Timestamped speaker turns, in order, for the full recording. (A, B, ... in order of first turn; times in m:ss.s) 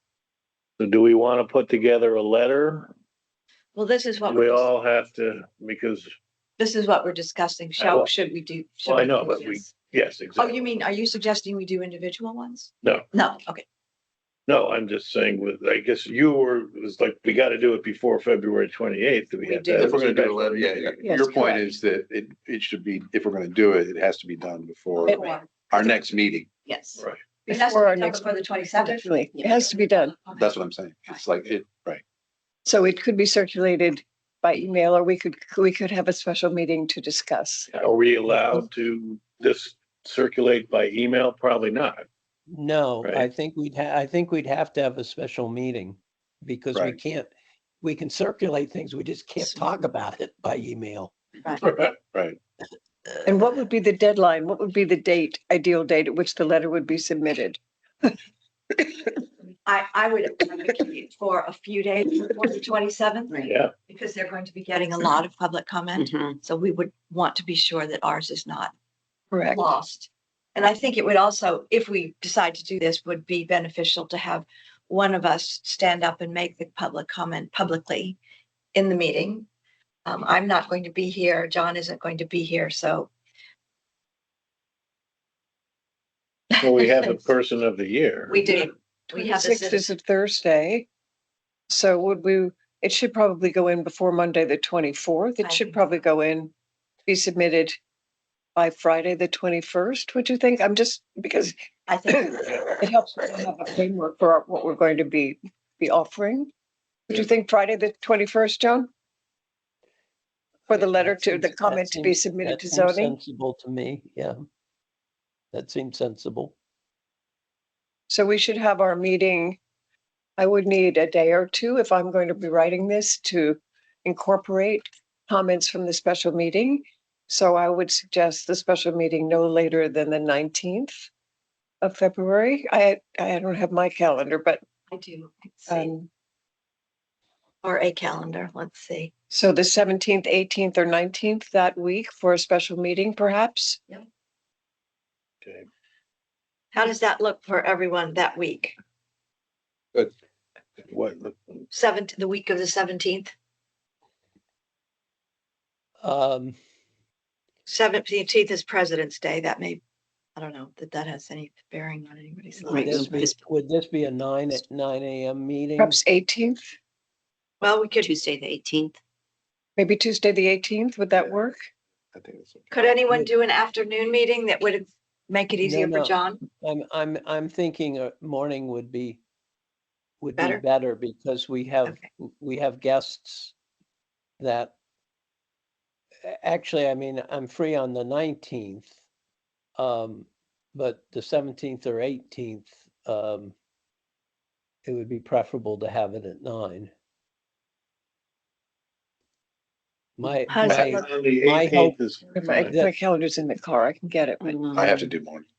0:00.8-0:02.9 A
0:03.7-0:04.7 B
0:04.2-0:06.1 A
0:06.6-0:09.7 B
0:07.8-0:08.1 A
0:08.8-0:10.7 A
0:10.4-0:13.6 B
0:14.5-0:21.0 A
0:19.4-0:20.0 B
0:19.7-0:26.4 C
0:21.0-0:21.6 D
0:25.0-0:26.1 B
0:25.0-0:25.4 D
0:26.6-0:30.6 B
0:27.5-0:28.3 D
0:28.8-0:30.2 D
0:30.4-0:32.0 C
0:32.6-0:37.7 D
0:37.7-0:42.0 A
0:42.5-0:47.3 E
0:47.8-0:51.1 E
0:51.6-0:51.9 A
0:53.2-0:58.1 D
0:59.6-1:08.7 B
1:03.4-1:03.7 A
1:06.0-1:06.4 F
1:09.3-1:09.7 D
1:09.5-1:18.2 B
1:18.7-1:19.5 B
1:20.0-1:23.1 B
1:26.6-1:27.2 B
1:26.6-1:28.4 A
1:28.3-1:29.9 B
1:29.1-1:30.8 D
1:31.7-1:36.5 D
1:35.4-1:35.9 B
1:37.1-1:37.8 D
1:38.6-1:41.5 D
1:41.9-1:42.8 B
1:42.0-1:46.5 D
1:47.1-1:48.9 D
1:50.7-1:53.2 D
1:50.7-1:54.4 E
1:55.5-1:56.5 E
1:58.1-1:59.6 D
2:00.4-2:11.1 D
2:11.8-2:14.6 D
2:14.9-2:15.9 B
2:15.7-2:16.1 D
2:17.6-2:19.1 B
2:19.3-2:23.9 D
2:26.7-2:28.8 B
2:30.9-2:31.6 A
2:31.7-2:33.3 B
2:36.0-2:36.6 E
2:37.7-2:39.8 B
2:40.4-2:43.0 B
2:42.7-2:46.0 E
2:42.7-2:43.4 F
2:45.8-2:46.7 D
2:47.6-2:48.2 B
2:48.0-2:49.0 F
2:49.8-2:51.6 D
2:52.1-2:52.9 C
2:52.7-2:56.4 B
2:55.6-2:59.2 E
3:00.2-3:03.5 E
3:00.4-3:00.6 B
3:04.4-3:04.7 E
3:06.2-3:08.9 E
3:09.8-3:13.5 E
3:14.8-3:16.9 E
3:20.2-3:21.9 E
3:20.5-3:21.0 B
3:20.7-3:22.7 A
3:22.4-3:24.6 D
3:22.6-3:22.9 E
3:24.4-3:25.1 F
3:24.7-3:25.4 C